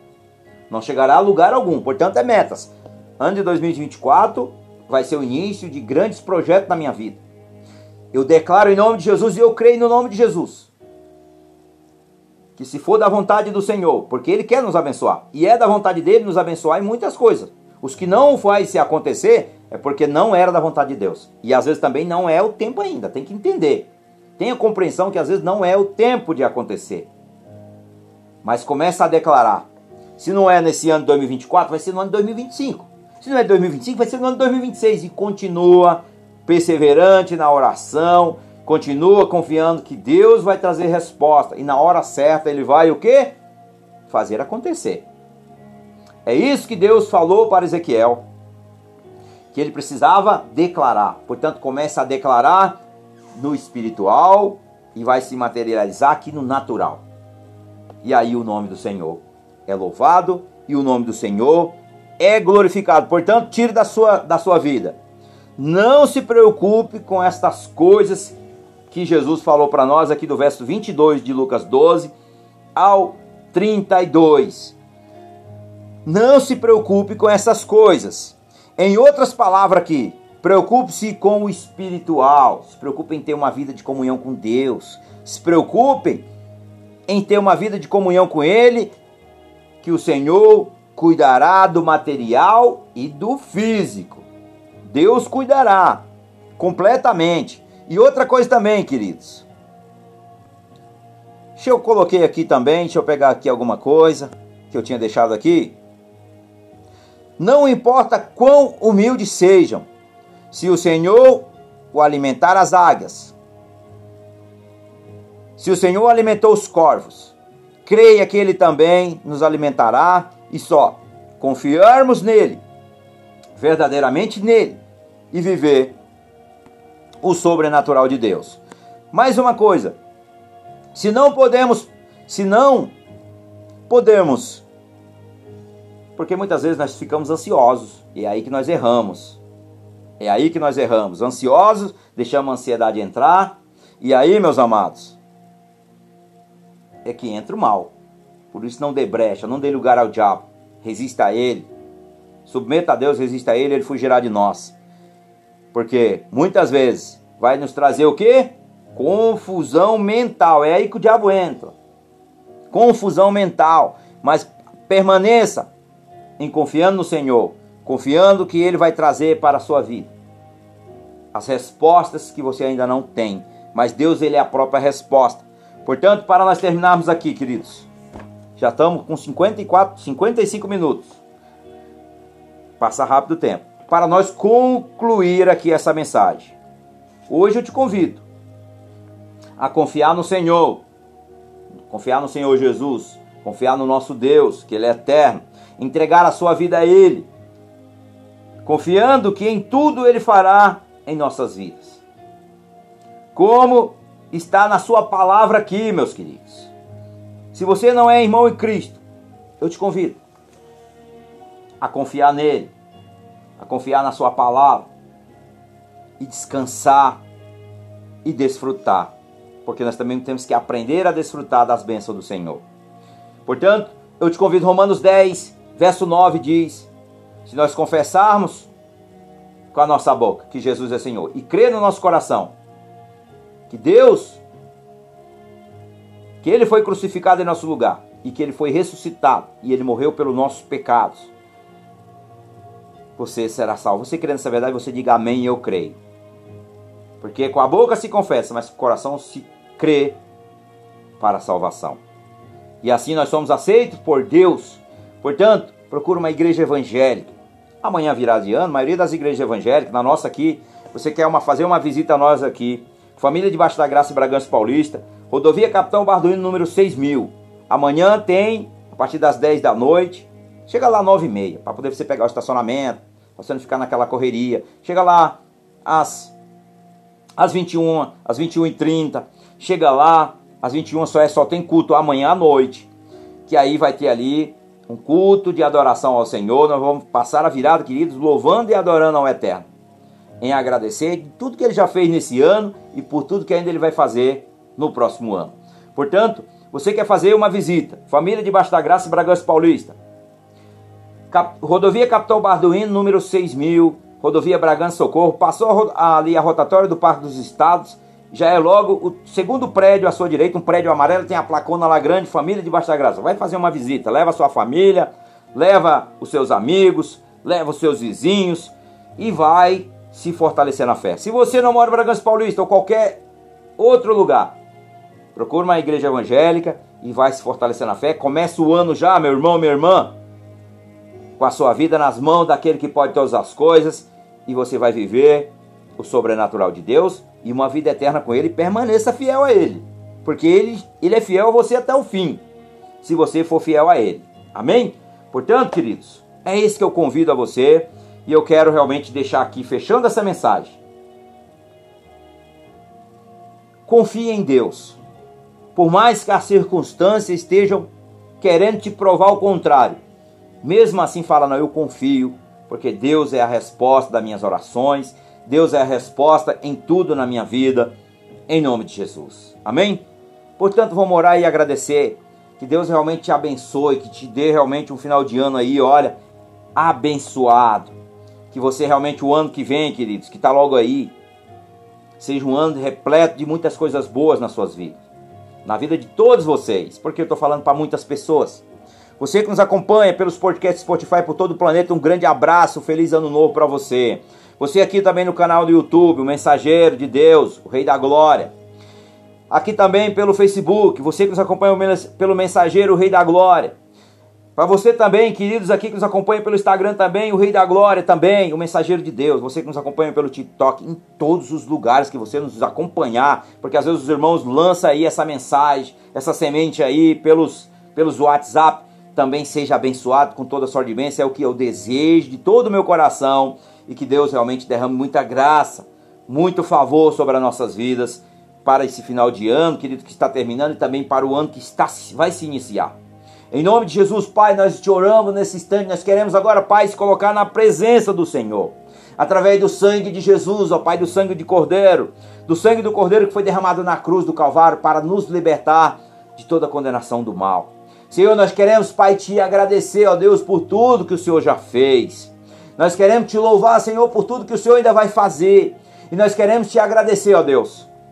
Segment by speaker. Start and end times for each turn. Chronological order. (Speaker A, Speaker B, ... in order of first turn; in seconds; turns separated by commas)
Speaker A: 0.7-7.2, Speaker A: 8.1-10.7, Speaker A: 12.6-27.1, Speaker A: 28.4-29.7, Speaker A: 30.2-43.4, Speaker A: 44.1-45.1, Speaker A: 46.2-48.2, Speaker A: 49.5-52.8, Speaker A: 53.4-57.0, Speaker A: 58.0-65.0, Speaker A: 65.6-68.3, Speaker A: 68.9-72.1, Speaker A: 72.7-74.8, Speaker A: 76.0-86.2, Speaker A: 87.1-88.9, Speaker A: 89.8-94.2, Speaker A: 94.8-96.0, Speaker A: 96.6-99.5, Speaker A: 101.6-105.8, Speaker A: 107.4-109.9, Speaker A: 110.5-113.3, Speaker A: 115.6-117.3, Speaker A: 117.8-122.6, Speaker A: 123.6-124.8, Speaker A: 125.3-125.9, Speaker A: 127.2-128.6, Speaker A: 129.1-130.0, Speaker A: 130.9-132.9, Speaker A: 133.9-134.6, Speaker A: 136.2-139.4, Speaker A: 140.2-145.2, Speaker A: 147.0-147.9, Speaker A: 148.5-151.7, Speaker A: 152.4-154.7, Speaker A: 155.7-161.7, Speaker A: 162.7-165.7, Speaker A: 166.4-170.1, Speaker A: 171.3-177.9, Speaker A: 178.6-181.2, Speaker A: 182.8-186.5, Speaker A: 187.3-188.2, Speaker A: 189.6-190.8, Speaker A: 191.9-197.3, Speaker A: 198.6-202.0, Speaker A: 203.3-206.7, Speaker A: 207.5-209.0, Speaker A: 209.6-210.2, Speaker A: 211.8-212.7, Speaker A: 213.6-214.9, Speaker A: 216.2-217.2, Speaker A: 218.2-219.1, Speaker A: 219.6-222.6, Speaker A: 223.4-226.9, Speaker A: 227.4-228.7, Speaker A: 229.7-232.5, Speaker A: 233.7-234.4, Speaker A: 236.4-241.3, Speaker A: 243.2-246.0, Speaker A: 247.2-250.2, Speaker A: 251.2-252.0, Speaker A: 252.8-276.3, Speaker A: 277.4-282.9, Speaker A: 283.5-289.6, Speaker A: 290.4-299.9, Speaker A: 301.3-323.2, Speaker A: 323.8-324.6, Speaker A: 325.3-330.1, Speaker A: 331.4-342.4, Speaker A: 343.0-350.8, Speaker A: 353.9-355.0, Speaker A: 355.7-357.9, Speaker A: 358.4-360.0, Speaker A: 360.6-367.9, Speaker A: 368.5-370.0, Speaker A: 370.6-376.2, Speaker A: 376.7-377.9, Speaker A: 378.5-381.1, Speaker A: 382.2-385.0, Speaker A: 385.6-388.6, Speaker A: 389.2-398.5, Speaker A: 399.5-403.7, Speaker A: 404.6-432.9, Speaker A: 433.5-457.9